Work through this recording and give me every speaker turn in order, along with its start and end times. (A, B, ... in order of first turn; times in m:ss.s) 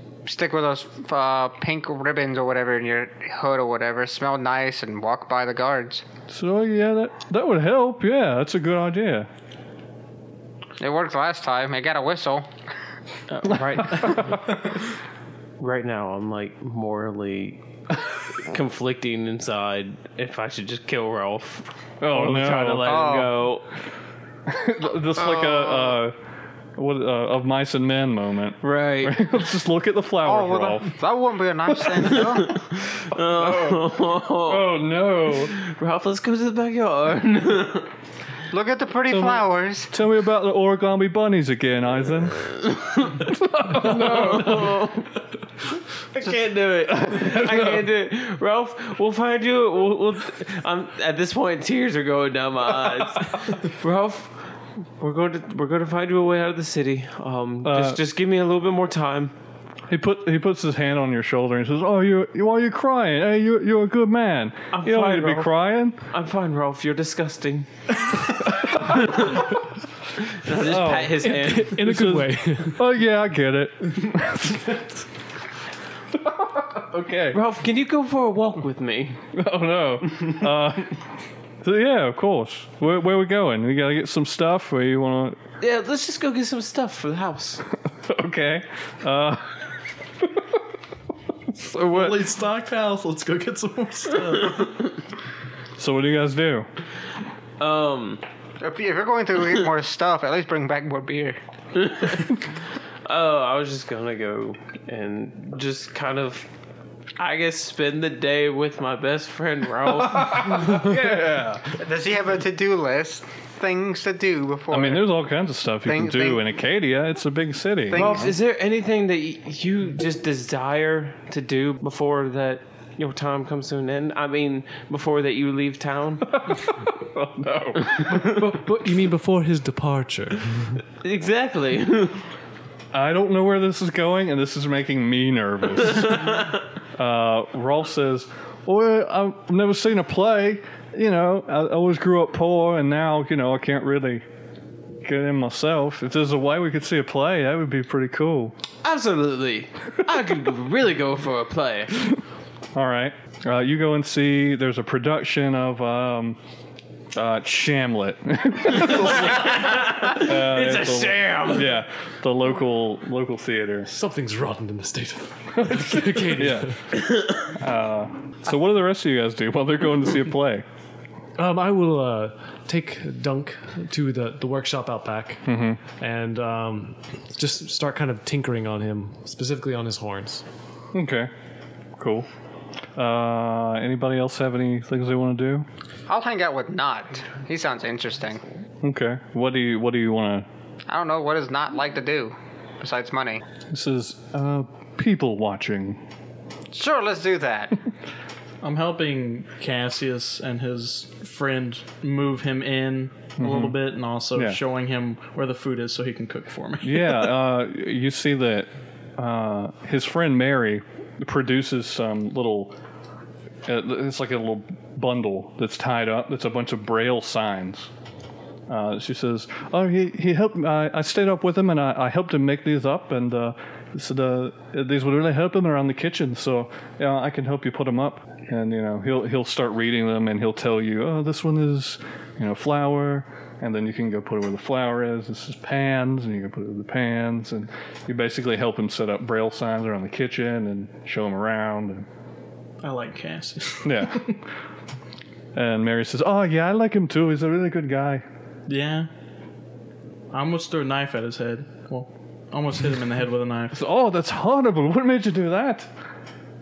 0:00.2-0:06.0 A
0:06.3-0:09.3 B
0:10.8-0:12.5 A
0:13.3-0:14.5 C
0:13.8-0:14.6 B
0:15.6-0:17.6 C
0:18.3-0:23.7 C
0:22.0-0:23.0 B
0:22.8-0:23.4 A
0:24.5-0:26.1 B
0:25.3-0:25.8 A
0:26.8-0:31.0 B
0:28.6-0:29.2 C
0:30.2-0:32.6 A
0:31.8-0:32.2 B
0:32.1-0:34.7 C
0:33.4-0:35.6 B
0:35.4-0:37.9 C
0:38.5-0:39.9 A
0:39.1-0:42.5 B
0:42.4-0:45.1 C
0:43.1-0:44.8 B
0:46.1-0:59.4 C
0:47.0-0:47.8 B
0:57.6-0:58.0 B
0:59.9-1:06.0 B
1:04.7-1:09.6 C
1:08.5-1:09.3 B
1:10.2-1:11.8 C
1:10.5-1:14.9 B
1:11.2-1:12.9 D
1:16.1-1:17.4 B
1:17.3-1:19.2 C
1:19.3-1:21.0 B
1:21.6-1:25.4 B
1:25.6-1:27.6 C
1:28.0-1:29.6 B
1:31.5-1:32.2 B
1:31.9-1:34.8 E
1:34.5-1:34.9 C
1:35.8-1:36.7 B
1:37.6-1:38.2 C
1:38.6-1:41.4 A
1:41.8-1:46.5 C
1:47.2-1:50.9 C
1:49.9-1:51.8 B
1:51.7-1:55.1 A
1:54.7-1:58.3 B
1:55.8-1:56.4 A
1:57.9-1:58.4 A
1:57.9-2:06.4 C
2:06.3-2:08.3 B
2:07.8-2:08.4 C
2:08.0-2:10.8 D
2:11.0-2:12.2 C
2:12.9-2:24.2 B
2:16.2-2:16.5 C
2:25.0-2:28.5 B
2:28.8-2:32.0 C
2:32.8-2:36.4 B
2:37.1-2:43.9 B
2:38.7-2:41.7 C
2:43.9-2:46.8 D
2:45.6-2:50.6 B
2:51.4-2:55.4 D
2:55.5-2:55.8 B
2:56.0-3:00.4 D
3:00.9-3:01.3 B
3:02.0-3:02.3 B
3:03.0-3:05.7 B
3:06.1-3:08.5 A
3:08.8-3:10.5 B
3:10.9-3:13.4 A
3:13.7-3:16.0 B
3:16.7-3:17.8 A
3:18.6-3:27.3 E
3:23.4-3:23.8 B
3:26.8-3:32.8 B
3:33.6-3:37.9 B
3:38.7-4:02.0 B
4:02.8-4:04.4 E
4:03.8-4:04.4 B
4:05.5-4:08.2 B
4:08.7-4:09.1 E
4:10.3-4:13.8 E
4:13.7-4:15.9 B